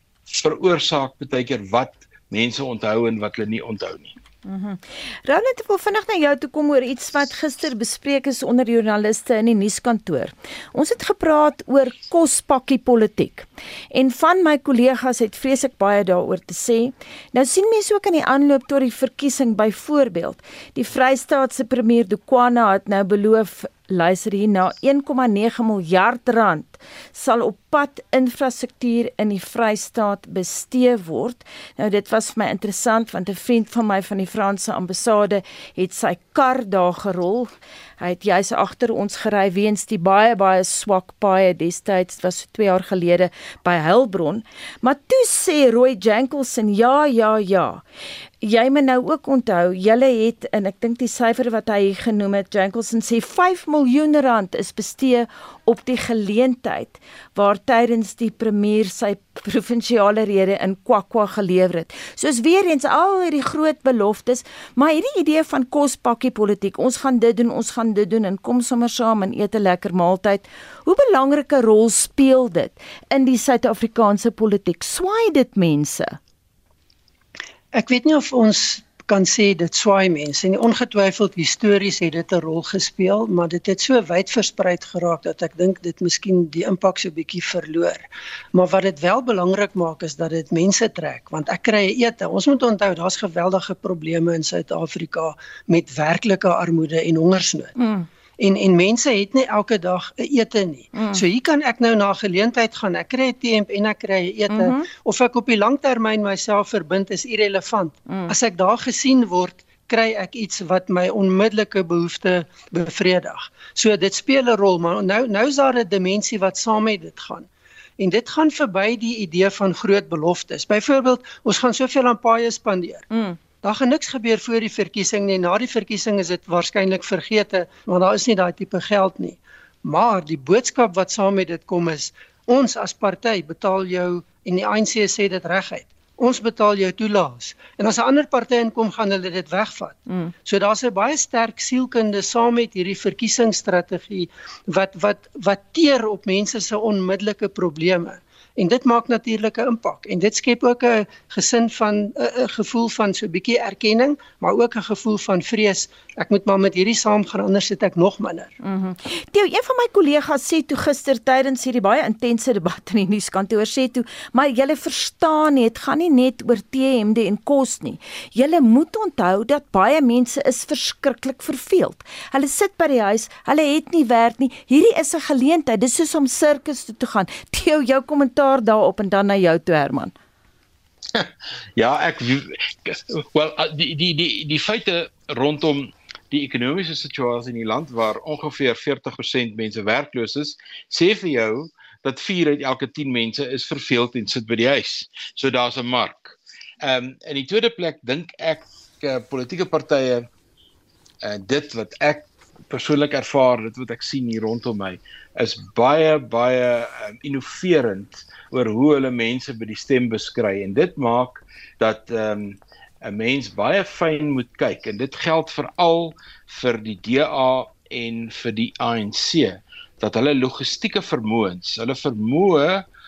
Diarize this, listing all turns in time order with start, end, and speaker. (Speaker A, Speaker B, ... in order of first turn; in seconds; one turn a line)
Speaker A: 0.3-4.1
Speaker B: 4.5-47.8
Speaker B: 48.4-76.2
Speaker C: 77.7-97.7
Speaker B: 97.8-98.0
Speaker C: 98.4-117.5
Speaker B: 100.9-101.2
Speaker B: 104.5-104.8
Speaker C: 118.0-123.0
Speaker B: 123.1-123.4
Speaker C: 123.6-158.5
Speaker B: 158.6-180.1
Speaker A: 181.1-200.3
Speaker A: 201.2-222.8